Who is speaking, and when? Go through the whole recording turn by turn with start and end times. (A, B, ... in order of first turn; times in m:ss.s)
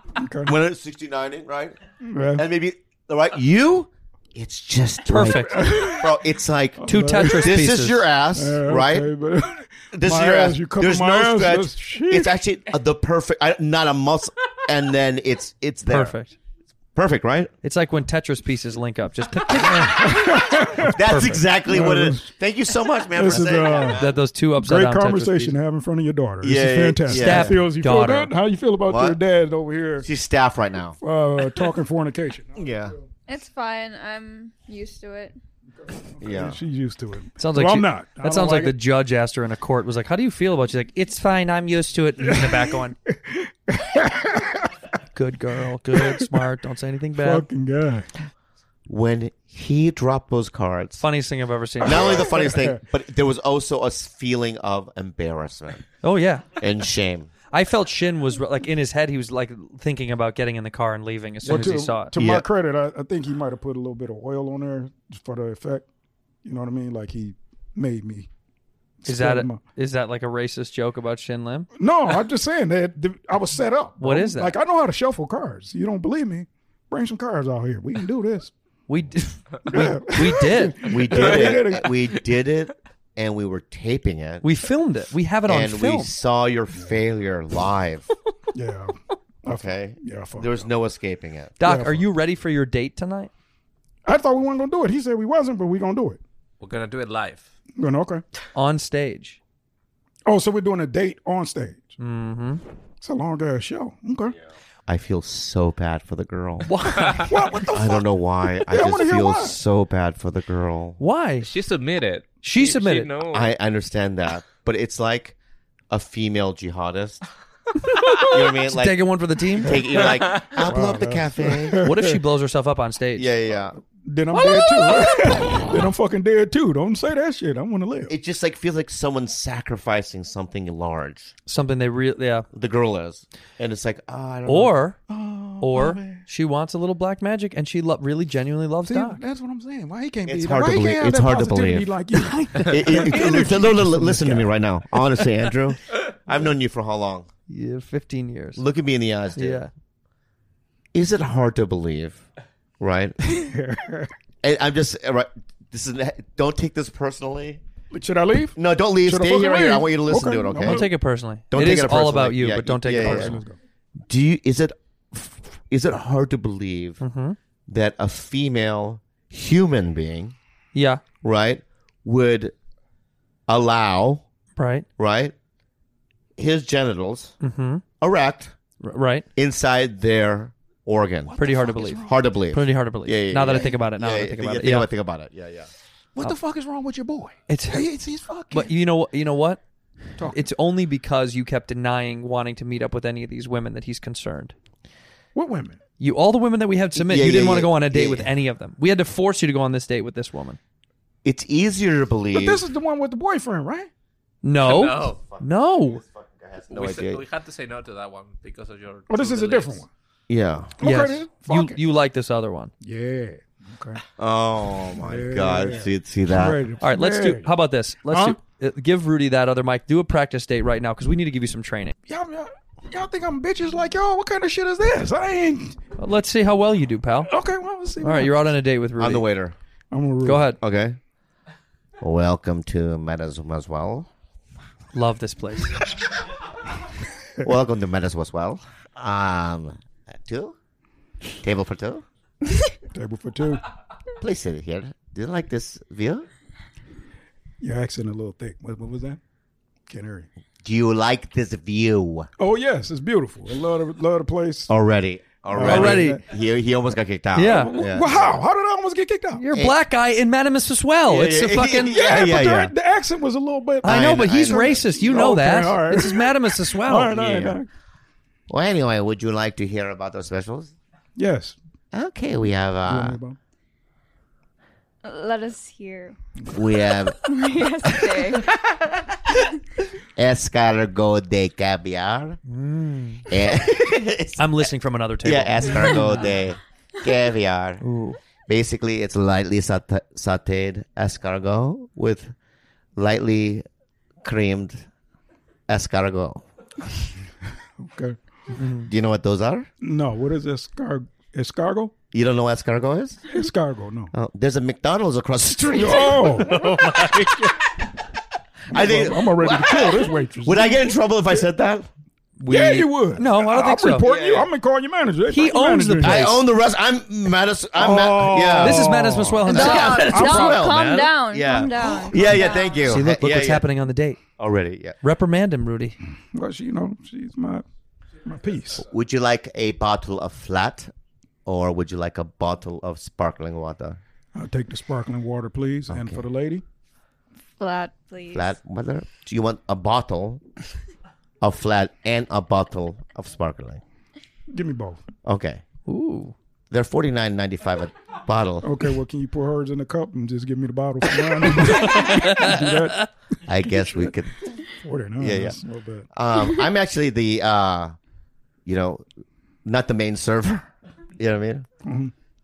0:00.2-0:00.5 A
0:00.4-0:01.8 B
0:02.0-0:02.4 A
0:02.3-0:09.1 B
0:05.1-0:06.0 C
0:05.5-0:06.1 A
0:06.8-0:07.6 A
0:06.8-0:08.1 C
0:08.3-0:12.3 A
0:09.9-0:16.1 B
0:15.9-0:16.3 C
0:16.9-0:17.5 B
0:17.6-0:21.4 C
0:19.6-0:21.0 A
0:20.8-0:24.2 B
0:21.7-0:22.3 A
0:23.1-0:24.0 A
0:23.8-0:25.6 C
0:24.6-0:30.1 A
0:26.4-0:27.6 B
0:27.1-0:28.3 C
0:28.8-0:29.2 B
0:30.0-0:31.0 B
0:31.0-0:33.1 A
0:32.6-0:32.9 B
0:33.3-0:35.3 D
0:35.8-0:38.7 A
0:36.2-0:36.6 B
0:37.4-0:43.0 C
0:42.2-0:44.6 A
0:45.1-0:47.4 C
0:45.9-0:46.2 A
0:47.2-0:48.1 A
0:48.9-0:51.0 B
0:51.0-0:52.2 C
0:51.8-0:55.8 B
0:51.8-0:52.8 A
0:56.0-0:56.5 C
0:56.6-0:57.3 B
0:57.5-1:02.4 C
1:01.4-1:05.8 A
1:06.4-1:08.3 A
1:09.0-1:09.6 A
1:09.1-1:11.7 C
1:11.8-1:18.5 A
1:14.0-1:14.6 C
1:18.9-1:21.4 C
1:19.7-1:22.0 A
1:20.9-1:24.4 B
1:24.4-1:26.1 C
1:25.4-1:28.0 B
1:28.5-1:30.7 A
1:29.5-1:31.6 B
1:31.6-1:33.3 C
1:31.6-1:32.0 A
1:34.0-1:36.2 A
1:36.6-1:37.5 E
1:37.8-1:38.2 A
1:38.5-1:39.4 C
1:40.2-1:41.9 A
1:42.0-1:42.6 C
1:43.0-1:44.4 A
1:44.9-1:46.8 B
1:46.6-1:47.3 C
1:47.2-1:49.6 A
1:47.7-1:51.0 B
1:51.0-1:51.5 C
1:51.4-1:53.5 E
1:52.4-1:53.1 C
1:53.3-1:55.4 B
1:55.9-1:57.2 B
1:57.9-1:59.9 C
1:58.2-1:59.1 B
1:59.6-2:01.8 B
2:00.0-2:00.5 E
2:00.6-2:02.0 A
2:01.8-2:03.3 C
2:03.2-2:03.8 B
2:04.0-2:08.1 A
2:04.3-2:05.6 C
2:08.1-2:11.3 B
2:11.4-2:12.4 C
2:12.5-2:14.8 B
2:14.4-2:15.0 C
2:15.1-2:16.2 A
2:15.6-2:19.2 C
2:18.9-2:24.5 A
2:20.3-2:22.0 B
2:22.6-2:27.3 B
2:27.5-2:28.6 C
2:28.5-2:29.6 B
2:29.4-2:29.7 C
2:30.9-2:32.2 B
2:32.8-2:33.2 B
2:33.3-2:34.1 A
2:34.4-2:37.6 B
2:37.9-2:40.9 A
2:38.5-2:40.9 B
2:40.6-2:43.4 C
2:41.5-2:43.4 B
2:43.0-2:43.5 A
2:44.1-2:47.0 B
2:47.0-2:47.4 C
2:47.7-2:50.3 B
2:50.7-2:51.0 C
2:51.2-2:52.5 B
2:53.5-2:54.2 B
2:54.6-2:54.8 C
2:55.0-2:55.3 B
2:56.4-2:57.3 B
2:57.4-2:57.8 C
2:58.0-2:58.5 B
2:58.8-2:59.2 C
2:59.4-3:01.3 B
3:01.3-3:02.2 A
3:01.4-3:04.9 C
3:02.0-3:05.7 B
3:06.2-3:08.7 A
3:07.5-3:07.9 C
3:08.5-3:09.6 C
3:10.2-3:14.5 C
3:15.3-3:15.8 A
3:16.0-3:20.6 C
3:16.9-3:18.3 B
3:21.2-3:22.6 B
3:22.3-3:23.9 A
3:24.4-3:26.0 C
3:24.6-3:25.2 E
3:25.2-3:27.2 B
3:26.7-3:29.8 E
3:29.1-3:29.9 A
3:30.3-3:30.7 B
3:30.8-3:31.8 A
3:30.8-3:32.7 C
3:32.8-3:34.0 A
3:34.2-3:36.6 B
3:35.0-3:37.5 A
3:36.8-3:41.9 C
3:38.1-3:38.4 A
3:42.1-3:45.8 A
3:46.0-3:47.3 C
3:47.3-3:48.5 A
3:48.0-3:49.2 C
3:49.0-3:49.6 B
3:49.9-3:50.5 A
3:50.2-3:50.6 C
3:50.6-3:51.0 B
3:52.0-3:54.1 B
3:54.9-3:55.8 C
3:57.4-4:00.6 B
4:01.4-4:02.0 B
4:02.9-4:03.6 A
4:04.2-4:06.3 B
4:07.6-4:09.2 A
4:09.9-4:10.3 A
4:10.6-4:12.3 B
4:12.4-4:14.7 A
4:14.7-4:18.4 B
4:15.5-4:16.2 A
4:15.6-4:16.2 C
4:17.3-4:17.7 C
4:17.4-4:19.4 A
4:19.4-4:22.1 C
4:19.5-4:19.8 B
4:21.1-4:22.7 B
4:21.9-4:27.6 A
4:23.8-4:27.1 C
4:23.8-4:25.2 B
4:27.1-4:27.6 B
4:28.5-4:30.7 B
4:31.2-4:31.6 A
4:31.9-4:33.2 B
4:32.9-4:33.4 A
4:35.0-4:36.2 D
4:36.5-4:37.2 B
4:37.2-4:38.5 D
4:40.2-4:42.4 B
4:42.5-4:43.2 C
4:43.3-4:44.6 B
4:44.4-4:46.3 C
4:45.2-4:47.8 B
4:47.8-4:48.2 C
4:48.5-4:52.3 B
4:53.0-4:53.6 B
4:54.2-4:54.8 B
4:55.7-4:56.4 B
4:57.8-4:58.2 A
4:58.6-4:58.9 C
4:58.8-4:59.7 B
4:59.8-5:01.9 A
5:02.1-5:03.2 B
5:03.3-5:04.1 A
5:04.1-5:07.4 B
5:05.8-5:06.6 A
5:06.5-5:07.3 C
5:08.7-5:10.8 A
5:08.7-5:11.9 B
5:12.4-5:14.1 C
5:12.5-5:16.4 A
5:14.0-5:14.5 B
5:15.3-5:16.4 C
5:16.0-5:23.6 B
5:17.8-5:20.5 A
5:18.6-5:21.1 C
5:19.4-5:22.9 D
5:22.8-5:24.2 C
5:24.4-5:25.0 B
5:25.0-5:26.0 C
5:26.3-5:27.6 A
5:28.2-5:28.8 A
5:28.8-5:30.9 B
5:31.4-5:34.0 B
5:34.3-5:36.6 A
5:35.9-5:36.2 B
5:37.6-5:38.5 D
5:38.3-5:40.4 B
5:41.4-5:43.8 B
5:44.5-5:45.0 A
5:45.2-5:45.6 B
5:45.9-5:46.3 C
5:46.7-5:48.7 B
5:48.6-5:53.1 A
5:51.9-5:52.6 C
5:53.4-5:54.4 B
5:53.8-5:54.1 A
5:54.8-5:56.1 A
5:55.2-5:55.6 B
5:56.1-5:57.9 B
5:58.6-5:59.0 B
5:59.6-6:00.7 B
6:01.2-6:01.6 B
6:01.8-6:02.1 A